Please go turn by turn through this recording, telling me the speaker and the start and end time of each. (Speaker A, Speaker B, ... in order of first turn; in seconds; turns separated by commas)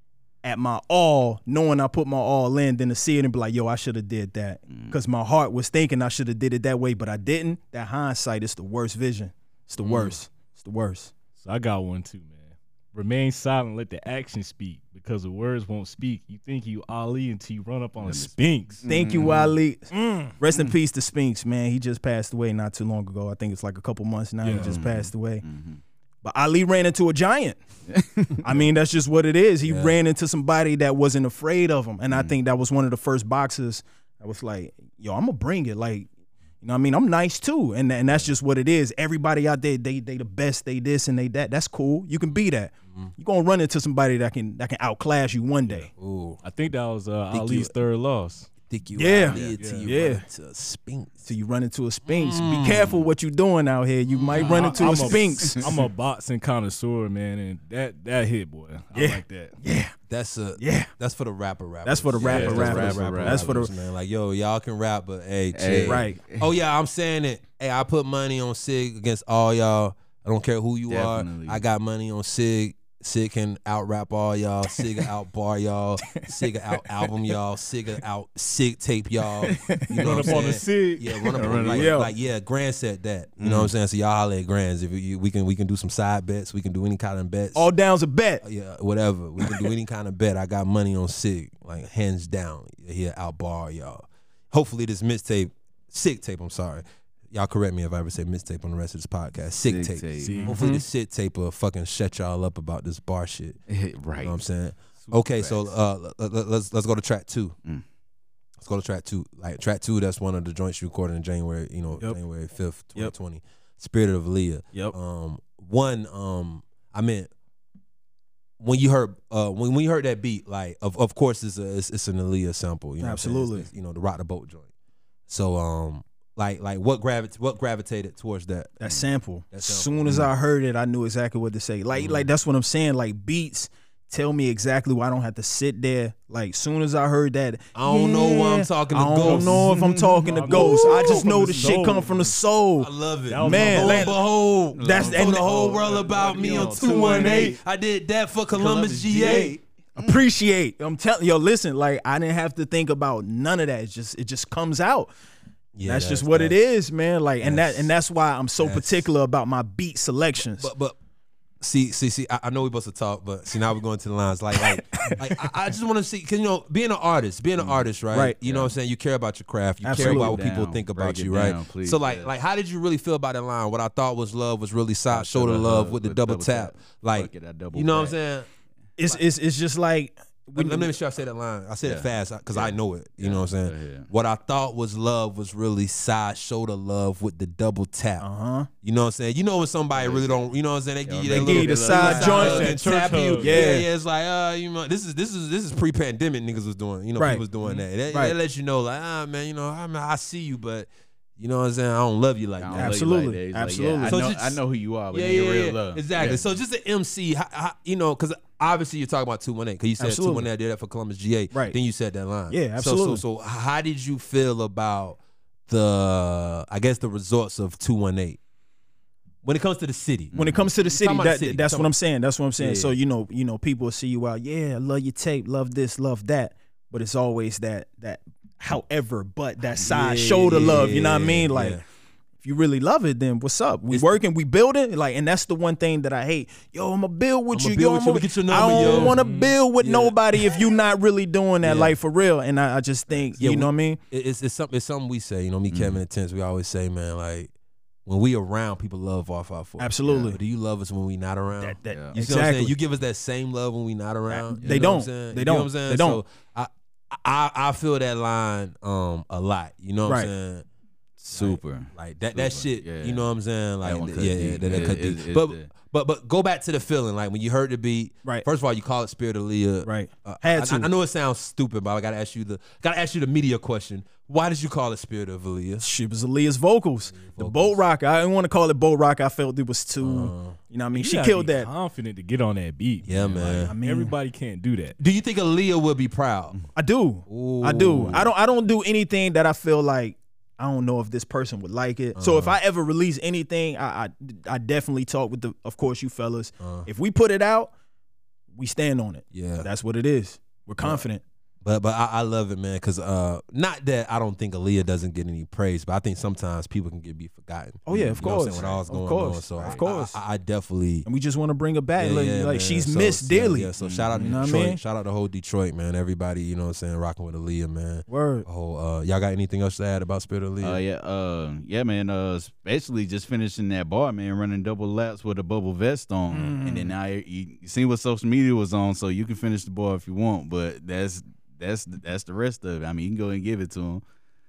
Speaker A: 0.4-11.1, Speaker B: 4.7-5.0, Speaker C: 9.8-10.2, Speaker D: 11.4-18.9, Speaker B: 18.0-19.6, Speaker A: 18.9-25.4, Speaker D: 20.0-20.2, Speaker D: 24.4-24.7, Speaker B: 24.5-25.8, Speaker A: 26.2-27.6, Speaker B: 27.9-28.6, Speaker A: 28.4-36.1, Speaker C: 29.7-30.0, Speaker A: 36.6-45.9, Speaker C: 45.7-46.4, Speaker D: 46.4-48.5, Speaker C: 47.3-47.7, Speaker C: 48.7-51.3, Speaker A: 49.0-50.2, Speaker D: 49.6-49.9, Speaker A: 51.2-55.7, Speaker C: 52.1-53.0, Speaker C: 54.1-54.9, Speaker D: 54.3-59.6, Speaker B: 54.8-55.6, Speaker A: 58.9-59.9, Speaker C: 60.1-87.7, Speaker A: 60.6-60.9, Speaker A: 61.9-63.7, Speaker B: 62.3-63.6, Speaker D: 62.3-62.6, Speaker B: 65.5-66.5, Speaker A: 65.9-66.2, Speaker B: 70.9-71.6, Speaker A: 79.5-80.0, Speaker D: 79.9-82.0, Speaker A: 81.7-82.1, Speaker B: 83.4-83.7, Speaker A: 87.5-88.4, Speaker C: 88.4-103.6, Speaker B: 99.7-100.5, Speaker D: 100.2-100.6, Speaker A: 100.4-100.8, Speaker B: 103.7-104.4, Speaker C: 104.2-107.6, Speaker B: 105.0-105.7, Speaker C: 108.6-117.3, Speaker C: 118.6-124.7, Speaker A: 123.0-123.7, Speaker C: 125.3-128.8, Speaker A: 128.8-144.2, Speaker C: 129.5-130.3, Speaker C: 131.9-132.3, Speaker C: 137.8-139.7, Speaker D: 139.2-139.7, Speaker B: 139.6-140.3, Speaker D: 140.2-142.4, Speaker C: 140.5-141.3, Speaker C: 142.8-149.6, Speaker D: 143.3-144.1, Speaker B: 144.7-147.6, Speaker A: 144.8-145.8, Speaker D: 145.6-147.6, Speaker A: 147.0-147.5, Speaker B: 148.5-150.2, Speaker A: 150.0-155.1, Speaker C: 155.8-156.6, Speaker A: 155.8-160.7, Speaker C: 157.4-157.9, Speaker C: 158.6-159.1, Speaker C: 160.4-161.0, Speaker C: 161.6-178.5, Speaker B: 167.6-167.9, Speaker B: 168.4-168.7, Speaker A: 169.8-170.4, Speaker B: 169.9-172.3, Speaker B: 175.1-178.2, Speaker A: 179.0-180.9, Speaker C: 180.6-188.3, Speaker B: 181.8-184.1, Speaker A: 188.2-188.7, Speaker C: 188.8-203.1, Speaker B: 189.9-190.4, Speaker B: 191.1-192.7, Speaker A: 191.3-193.9, Speaker D: 191.9-193.6, Speaker A: 197.2-197.4, Speaker A: 198.1-198.3, Speaker B: 202.6-206.4, Speaker A: 202.7-204.2, Speaker C: 204.1-204.6, Speaker C: 205.1-218.4, Speaker A: 210.0-210.5, Speaker A: 212.5-213.2, Speaker C: 219.4-221.9, Speaker B: 220.3-220.7, Speaker A: 220.3-231.8, Speaker C: 222.6-223.0, Speaker C: 229.8-231.8, Speaker B: 230.1-230.9, Speaker A: 232.4-244.0, Speaker C: 233.9-234.2, Speaker C: 237.5-239.2, Speaker D: 238.8-239.6, Speaker C: 239.8-240.6, Speaker C: 241.6-242.0, Speaker C: 243.3-247.5, Speaker B: 245.7-246.0, Speaker C: 248.1-260.6, Speaker A: 249.8-250.4, Speaker A: 251.6-252.8, Speaker A: 254.3-256.2, Speaker A: 260.1-260.3, Speaker B: 261.2-263.3, Speaker C: 261.3-275.9, Speaker B: 263.8-265.7, Speaker A: 269.9-270.9, Speaker A: 275.8-281.7, Speaker C: 277.1-277.8, Speaker C: 280.0-280.6, Speaker D: 280.9-285.0, Speaker C: 283.0-283.7, Speaker A: 283.4-284.1, Speaker C: 285.0-286.6, Speaker A: 286.8-297.7, Speaker C: 287.3-288.3, Speaker C: 292.2-292.6, Speaker C: 296.6-296.9, Speaker A: 298.5-301.2, Speaker C: 299.3-299.7, Speaker C: 301.6-311.1, Speaker A: 307.9-310.2, Speaker A: 311.1-314.8, Speaker C: 312.0-320.8, Speaker B: 313.8-314.5, Speaker A: 318.1-318.5, Speaker B: 320.6-334.0, Speaker A: 326.3-326.9